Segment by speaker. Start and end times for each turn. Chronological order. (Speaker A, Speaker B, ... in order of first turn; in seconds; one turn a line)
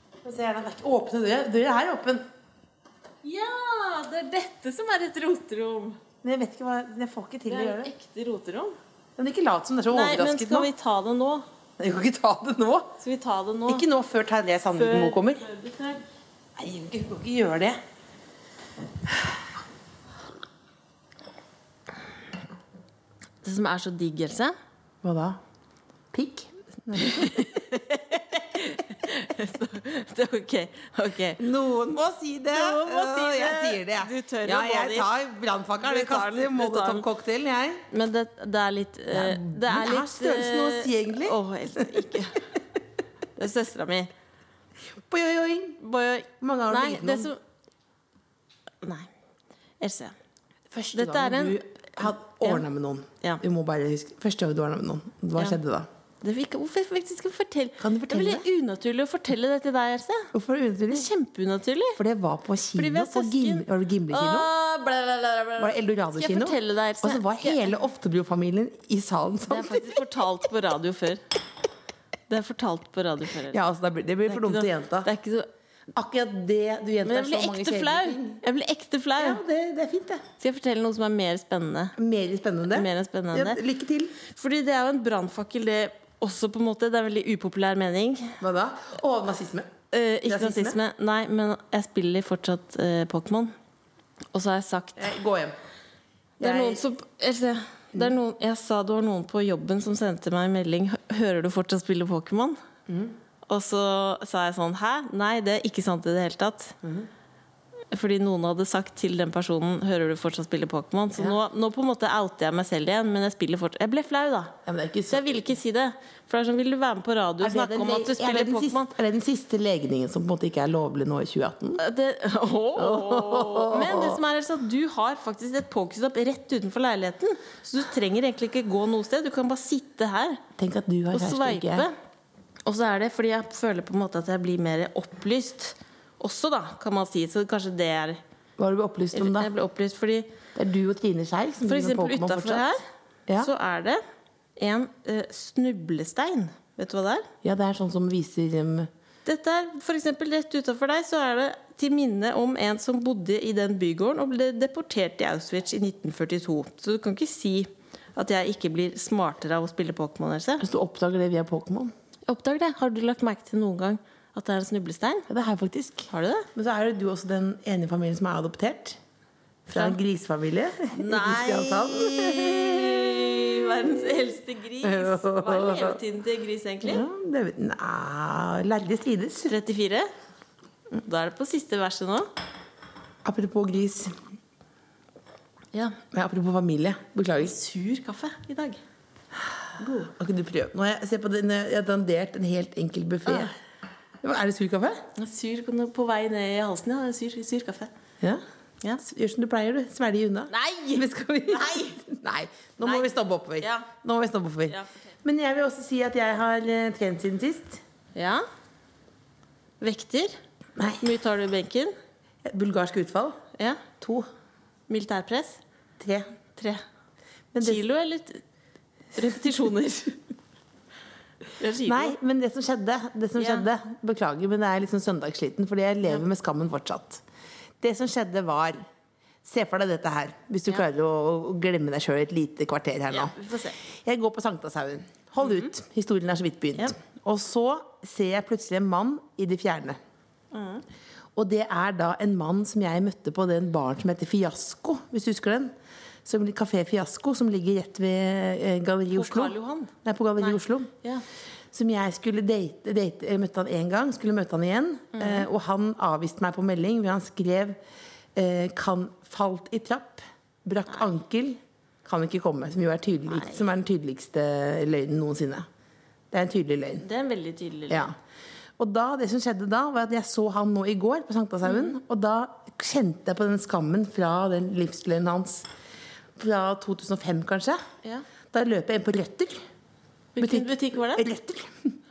Speaker A: 0.2-2.2
Speaker B: 3.2-6.0
Speaker A: 6.2-7.9
Speaker B: 7.5-8.8
Speaker A: 9.2-10.7
Speaker B: 9.9-11.5
Speaker A: 11.8-13.0
Speaker B: 13.0-13.9
Speaker A: 13.7-15.4
Speaker B: 14.7-16.0
Speaker A: 16.6-17.8
Speaker B: 23.4-24.6
Speaker A: 25.0-25.4
Speaker A: 26.1-27.6
Speaker B: 26.9-31.4
Speaker A: 31.4-37.8
Speaker B: 32.5-35.1
Speaker B: 35.8-37.0
Speaker B: 37.9-42.5
Speaker A: 39.1-42.1
Speaker B: 43.4-44.1
Speaker A: 45.1-45.8
Speaker B: 45.8-47.4
Speaker A: 46.4-47.3
Speaker B: 48.8-49.1
Speaker B: 49.8-50.1
Speaker A: 50.7-55.9
Speaker B: 50.9-52.6
Speaker B: 56.2-60.3
Speaker A: 57.8-58.5
Speaker A: 60.3-61.1
Speaker B: 60.9-62.0
Speaker A: 62.0-64.5
Speaker B: 62.8-67.7
Speaker A: 65.6-70.0
Speaker B: 69.5-71.2
Speaker B: 72.3-73.6
Speaker A: 73.5-75.1
Speaker B: 74.3-75.5
Speaker A: 75.9-78.4
Speaker B: 77.0-79.4
Speaker A: 79.2-80.2
Speaker B: 80.4-82.0
Speaker A: 82.0-84.1
Speaker B: 82.7-83.6
Speaker B: 84.2-88.4
Speaker A: 88.4-89.7
Speaker B: 89.9-93.5
Speaker A: 90.3-90.8
Speaker B: 94.3-95.1
Speaker A: 95.0-95.6
Speaker B: 96.4-102.6
Speaker A: 96.4-96.8
Speaker A: 102.9-103.2
Speaker B: 103.5-106.8
Speaker A: 106.8-107.1
Speaker B: 107.9-114.5
Speaker A: 114.7-115.4
Speaker B: 115.1-118.9
Speaker A: 117.4-121.8
Speaker B: 121.8-130.4
Speaker A: 122.8-124.2
Speaker A: 130.6-131.9
Speaker B: 131.1-131.9
Speaker B: 132.7-138.2
Speaker A: 138.6-139.5
Speaker B: 139.1-140.3
Speaker A: 140.6-142.6
Speaker B: 141.7-142.8
Speaker B: 143.4-144.0
Speaker B: 144.6-147.3
Speaker A: 147.4-148.9
Speaker B: 149.2-160.6
Speaker A: 160.6-161.9
Speaker B: 162.3-165.3
Speaker A: 165.3-169.0
Speaker B: 166.1-166.5
Speaker A: 169.7-176.0
Speaker B: 169.7-170.0
Speaker B: 170.9-177.1
Speaker A: 176.8-179.5
Speaker B: 179.5-180.1
Speaker B: 180.9-182.3
Speaker A: 183.2-184.2
Speaker B: 185.7-186.0
Speaker A: 186.1-187.6
Speaker B: 187.4-188.8
Speaker A: 189.8-193.5
Speaker A: 194.2-195.1
Speaker B: 195.2-197.9
Speaker A: 199.0-207.8
Speaker B: 200.5-202.0
Speaker B: 202.8-203.1
Speaker B: 203.6-203.9
Speaker B: 204.7-205.1
Speaker B: 208.2-208.4
Speaker B: 209.8-210.4
Speaker A: 210.8-211.0
Speaker B: 211.0-211.9
Speaker A: 212.4-213.4
Speaker B: 213.6-213.8
Speaker A: 214.0-214.3
Speaker B: 214.9-215.6
Speaker A: 216.0-216.3
Speaker B: 216.6-216.8
Speaker A: 217.5-217.9
Speaker B: 217.6-218.4
Speaker B: 219.2-220.2
Speaker B: 221.6-222.2
Speaker A: 221.8-227.2
Speaker B: 223.4-223.7
Speaker A: 227.8-228.8
Speaker A: 229.4-240.0
Speaker B: 233.1-233.8
Speaker B: 240.5-240.8
Speaker A: 241.3-245.7
Speaker A: 246.2-250.9
Speaker B: 249.1-251.2
Speaker A: 251.7-257.8
Speaker B: 255.2-255.5
Speaker A: 258.4-265.7
Speaker B: 263.3-263.6
Speaker A: 266.3-267.1
Speaker B: 267.0-268.1
Speaker A: 268.8-275.7
Speaker B: 271.7-271.9
Speaker A: 276.4-277.8
Speaker A: 278.5-279.6
Speaker B: 280.4-281.3
Speaker A: 280.4-281.9